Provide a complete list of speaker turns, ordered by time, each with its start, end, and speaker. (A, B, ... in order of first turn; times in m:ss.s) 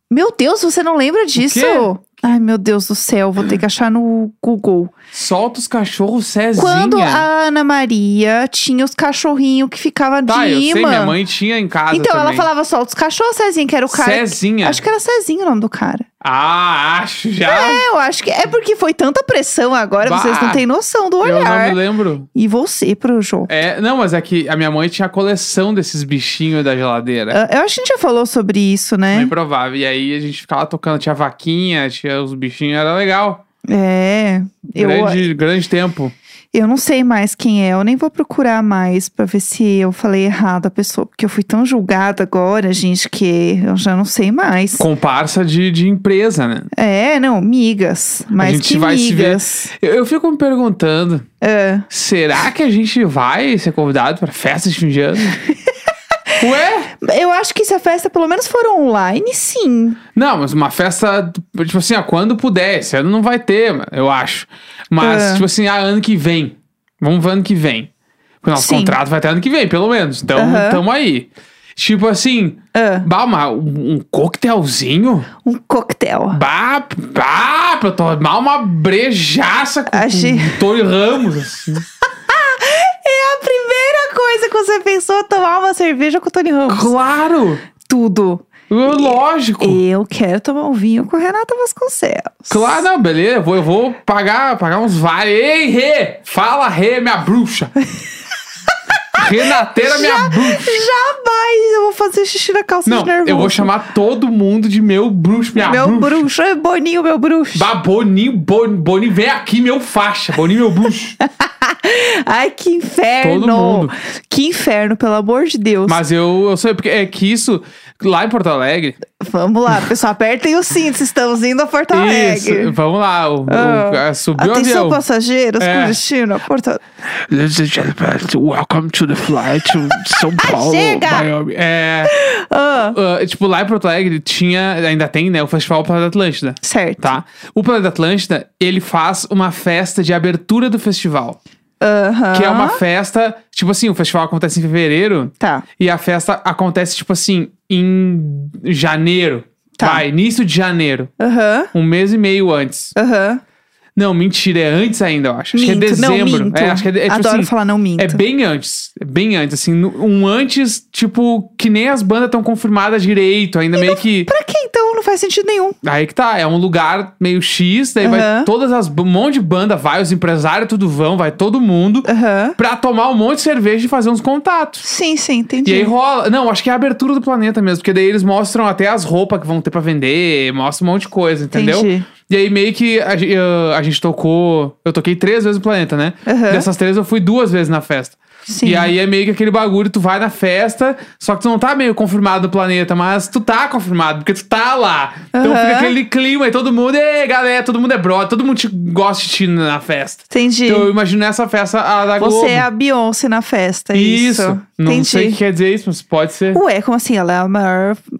0:00.1-0:04.9 A
0:01.4-0:01.9 B
0:05.1-0:07.3 B
0:06.6-0:11.2 A
0:10.3-0:12.5 B
0:11.9-0:16.1 A
0:13.9-0:14.8 B
0:16.2-0:17.8 B
0:17.4-0:21.8 A
0:20.0-0:20.6 B
0:21.2-0:22.3 B
0:22.3-0:23.5 A
0:23.5-0:27.4 B
0:27.3-0:29.3 A
0:29.1-0:33.4 B
0:33.7-0:35.3 A
0:34.7-0:36.1 B
0:36.5-0:44.8 A
0:44.8-0:46.7 B
0:46.7-0:49.7 A
0:48.4-0:51.2 B
0:51.4-0:51.9 A
0:51.9-0:55.4 B
0:56.4-0:56.9 B
0:57.0-1:00.0 A
1:00.1-1:07.9 B
1:05.0-1:05.4 A
1:08.4-1:15.3 B
1:08.5-1:09.0 A
1:10.4-1:10.8 A
1:12.7-1:13.1 A
1:15.4-1:16.4 A
1:16.3-1:21.8 B
1:19.9-1:20.6 A
1:22.3-1:26.9 A
1:26.7-1:27.6 B
1:27.8-1:32.8 A
1:28.7-1:29.8 B
1:32.5-1:37.7 B
1:39.1-1:40.8 B
1:39.2-1:43.7 A
1:42.8-1:46.2 B
1:45.6-1:47.7 A
1:47.5-1:51.2 B
1:51.2-1:56.0 A
1:53.2-1:53.9 B
1:55.9-1:59.0 B
1:59.2-2:02.7 A
2:01.9-2:05.0 B
2:03.5-2:06.8 A
2:05.6-2:06.0 B
2:07.2-2:12.1 B
2:10.4-2:11.3 A
2:12.0-2:13.0 A
2:12.9-2:21.4 B
2:16.6-2:17.1 A
2:21.8-2:22.8 A
2:22.3-2:31.1 B
2:25.4-2:25.6 A
2:29.8-2:30.0 A
2:31.2-2:31.7 A
2:31.7-2:32.9 B
2:33.0-2:33.4 A
2:34.0-2:44.3 B
2:35.5-2:38.2 A
2:43.7-2:45.8 A
2:45.8-2:54.8 B
2:48.0-2:48.5 A
2:52.0-2:52.6 A
2:54.8-2:55.9 A
2:55.6-3:22.6 B
3:01.5-3:02.1 A
3:06.2-3:06.7 A
3:08.5-3:08.9 A
3:15.3-3:15.9 A
3:20.3-3:20.9 A
3:22.2-3:25.4 A
3:23.9-3:26.6 B
3:26.5-3:28.0 A